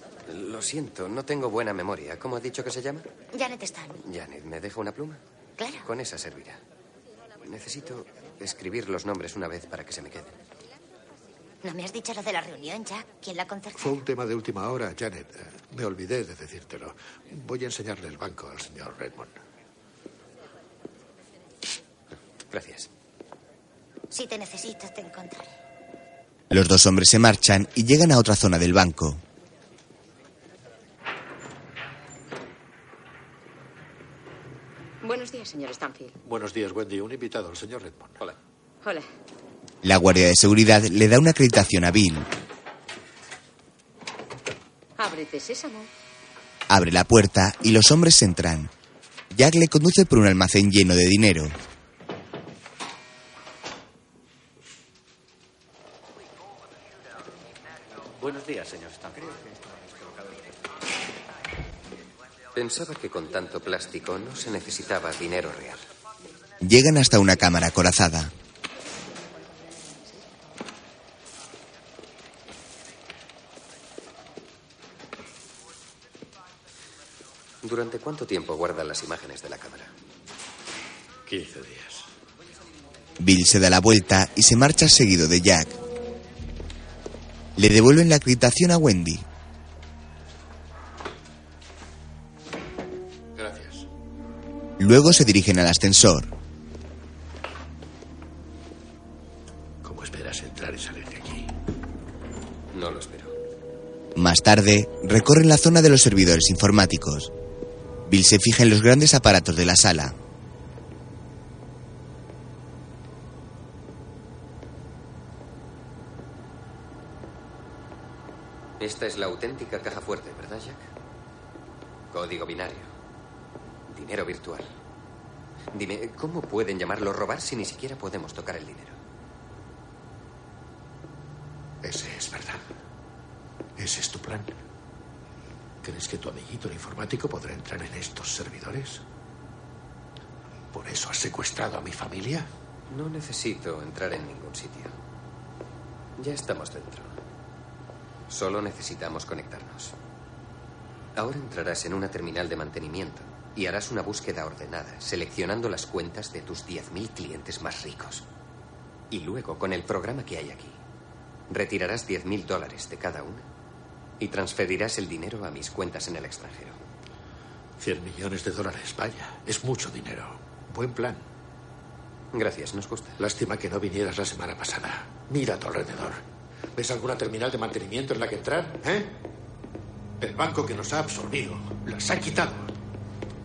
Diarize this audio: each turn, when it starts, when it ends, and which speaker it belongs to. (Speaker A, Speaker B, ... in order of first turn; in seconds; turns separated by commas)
Speaker A: 0.3-3.0, Speaker B: 3.3-4.0, Speaker A: 4.0-5.2, Speaker B: 5.6-5.9, Speaker A: 5.8-6.6, Speaker A: 7.4-10.3, Speaker B: 11.6-14.0, Speaker C: 13.8-19.4, Speaker A: 22.5-22.9, Speaker B: 24.1-25.5, Speaker D: 26.5-29.2, Speaker E: 35.0-36.1, Speaker C: 36.2-38.2, Speaker D: 39.8-42.3, Speaker E: 45.0-45.9, Speaker D: 46.7-48.7, Speaker D: 49.3-51.6, Speaker A: 62.5-65.8, Speaker D: 66.6-68.3, Speaker A: 77.6-79.9, Speaker C: 81.3-82.1, Speaker D: 83.2-85.8, Speaker D: 87.6-89.2, Speaker C: 93.4-93.9, Speaker D: 94.8-96.3, Speaker C: 99.8-101.5, Speaker A: 102.7-103.3, Speaker D: 104.2-107.3, Speaker D: 108.1-110.2, Speaker A: 118.8-120.9, Speaker A: 122.1-122.9, Speaker A: 123.9-124.7, Speaker A: 125.7-129.0, Speaker C: 131.8-132.6, Speaker C: 133.8-134.5, Speaker C: 135.8-139.0, Speaker C: 140.7-142.5, Speaker A: 142.9-144.9, Speaker A: 146.2-147.1, Speaker A: 148.3-149.9, Speaker A: 151.2-158.3, Speaker A: 159.1-160.8, Speaker A: 161.5-163.5, Speaker A: 164.2-166.8, Speaker C: 167.8-171.2, Speaker A: 172.3-173.2, Speaker C: 173.2-176.2, Speaker C: 176.8-179.1, Speaker C: 180.2-182.7